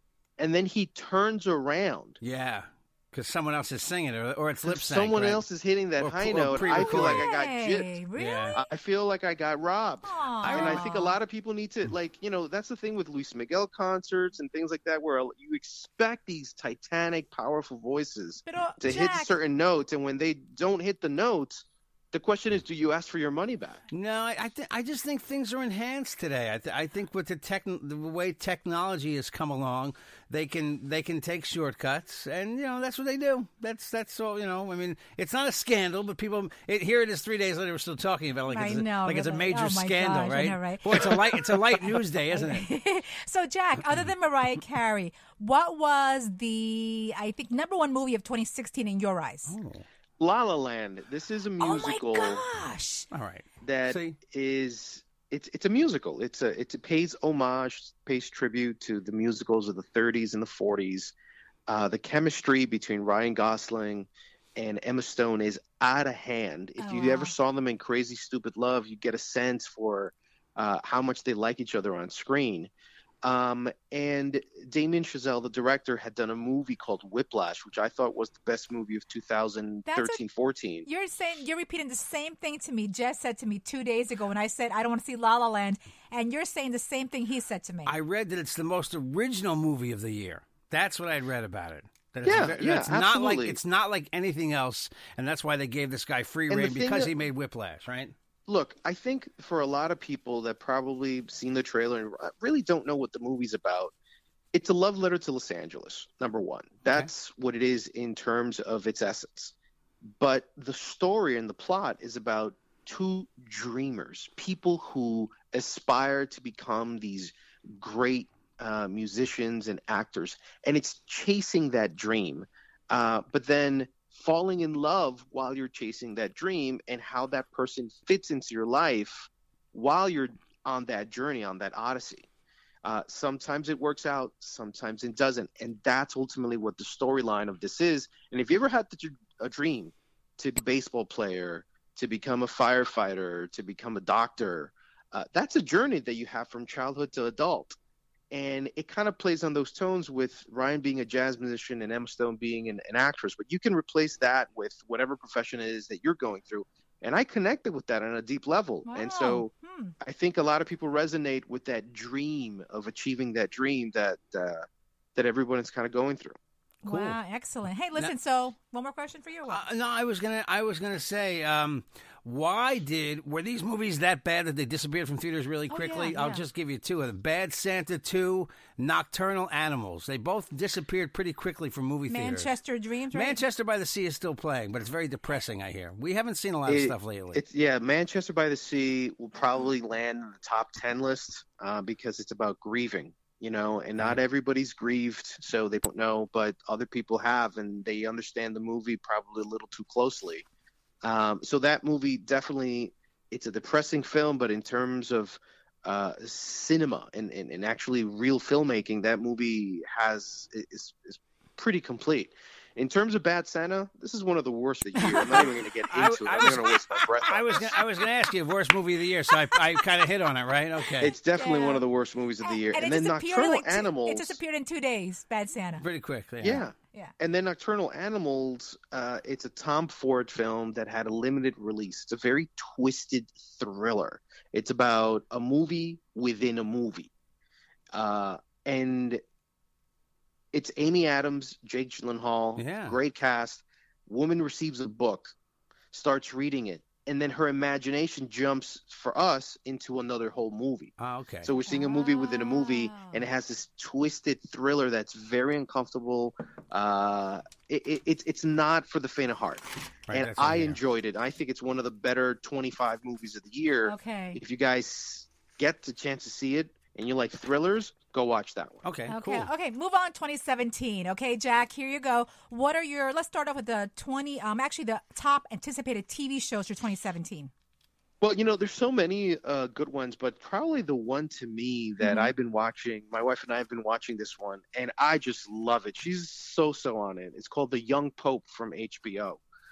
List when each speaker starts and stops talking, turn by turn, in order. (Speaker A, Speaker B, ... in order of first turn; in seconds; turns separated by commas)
Speaker A: 0.4-2.2, Speaker B: 2.2-5.4, Speaker A: 4.6-7.9, Speaker B: 6.0-7.3, Speaker C: 6.5-8.6, Speaker B: 8.2-8.6, Speaker A: 8.5-23.8, Speaker C: 10.0-11.2, Speaker B: 10.4-10.8, Speaker C: 18.4-19.4, Speaker B: 23.9-42.7, Speaker C: 38.5-41.3, Speaker C: 41.9-49.5, Speaker B: 49.5-49.9, Speaker A: 50.2-52.4, Speaker C: 51.6-53.1, Speaker B: 53.1-54.2, Speaker A: 53.6-61.1, Speaker A: 61.7-72.7, Speaker C: 66.8-67.3, Speaker A: 73.2-80.9, Speaker C: 79.8-80.2, Speaker C: 80.8-87.9, Speaker B: 87.8-98.1, Speaker A: 92.2-93.6, Speaker A: 96.5-97.1, Speaker A: 98.5-103.9, Speaker A: 104.5-109.5, Speaker A: 110.2-132.3, Speaker A: 132.8-147.8, Speaker A: 148.3-166.4, Speaker C: 158.8-159.9, Speaker C: 166.8-169.6, Speaker B: 166.8-167.2, Speaker B: 169.5-182.5, Speaker C: 175.7-176.4, Speaker C: 182.1-183.4, Speaker B: 183.1-187.4, Speaker A: 186.7-200.4, Speaker A: 201.0-217.8, Speaker C: 215.0-215.4, Speaker B: 215.3-221.1, Speaker C: 219.3-219.8, Speaker A: 221.0-224.4, Speaker C: 221.1-221.8, Speaker C: 222.4-225.8, Speaker B: 225.8-226.6, Speaker A: 226.4-237.1, Speaker A: 237.9-239.2, Speaker A: 240.5-245.3, Speaker B: 242.6-243.0, Speaker A: 245.9-250.9, Speaker B: 251.0-251.5, Speaker A: 251.4-268.8, Speaker C: 251.6-253.2, Speaker B: 260.1-260.8, Speaker C: 263.8-264.4, Speaker B: 268.8-269.5, Speaker C: 269.1-277.5, Speaker A: 278.2-289.4, Speaker C: 282.0-282.3